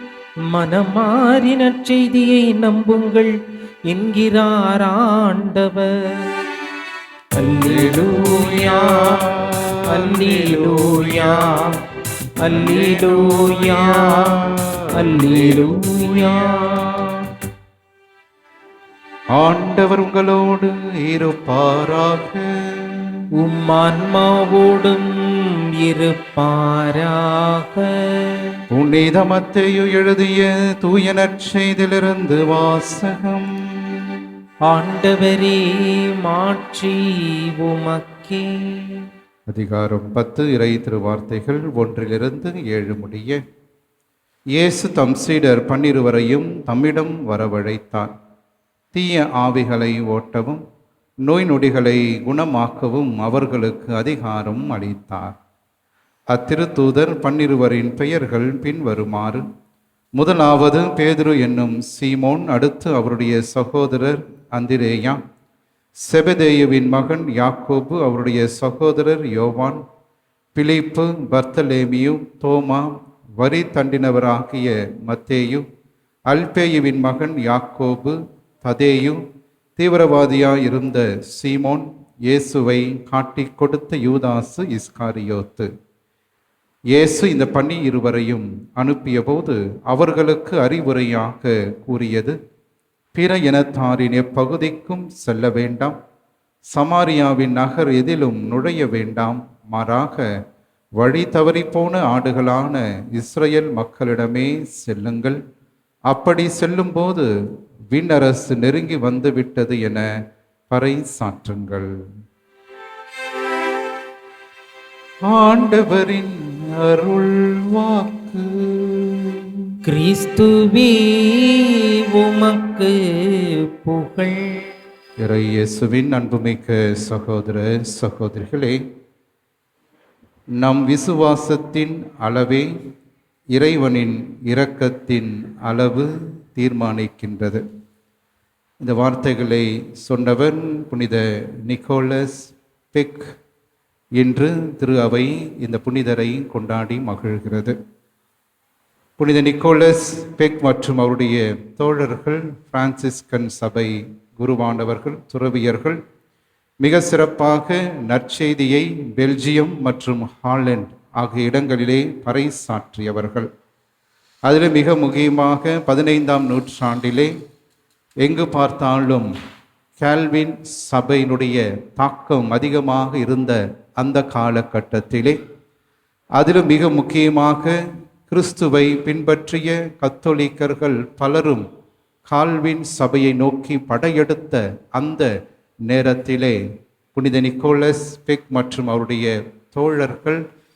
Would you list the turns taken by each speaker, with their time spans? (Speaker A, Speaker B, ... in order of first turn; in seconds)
Speaker A: 0.5-3.3, 3.9-6.2, 7.4-9.3, 9.9-11.8, 12.4-14.4, 14.9-17.1, 23.4-25.1, 25.8-28.6, 34.7-39.0, 119.8-124.7
Speaker B: 7.6-11.4, 12.5-17.2, 19.3-23.2, 28.7-34.3, 39.5-43.4, 44.5-48.1, 48.9-50.6, 51.2-55.4, 56.3-59.4, 60.2-65.2, 66.0-69.8, 70.5-75.7, 76.3-79.2, 79.8-85.7, 86.9-92.3, 93.1-96.0, 96.7-100.2, 101.0-105.4, 106.1-107.3, 107.9-110.0, 110.7-111.9, 115.2-119.7, 125.2-128.8, 130.6-132.7, 133.5-137.6, 138.8-143.3, 144.2-147.8, 149.2-156.0, 156.8-163.5, 164.5-167.3, 168.2-169.3, 170.0-175.4, 176.4-177.8, 178.3-181.7, 182.2-185.3, 185.9-186.6, 187.1-190.4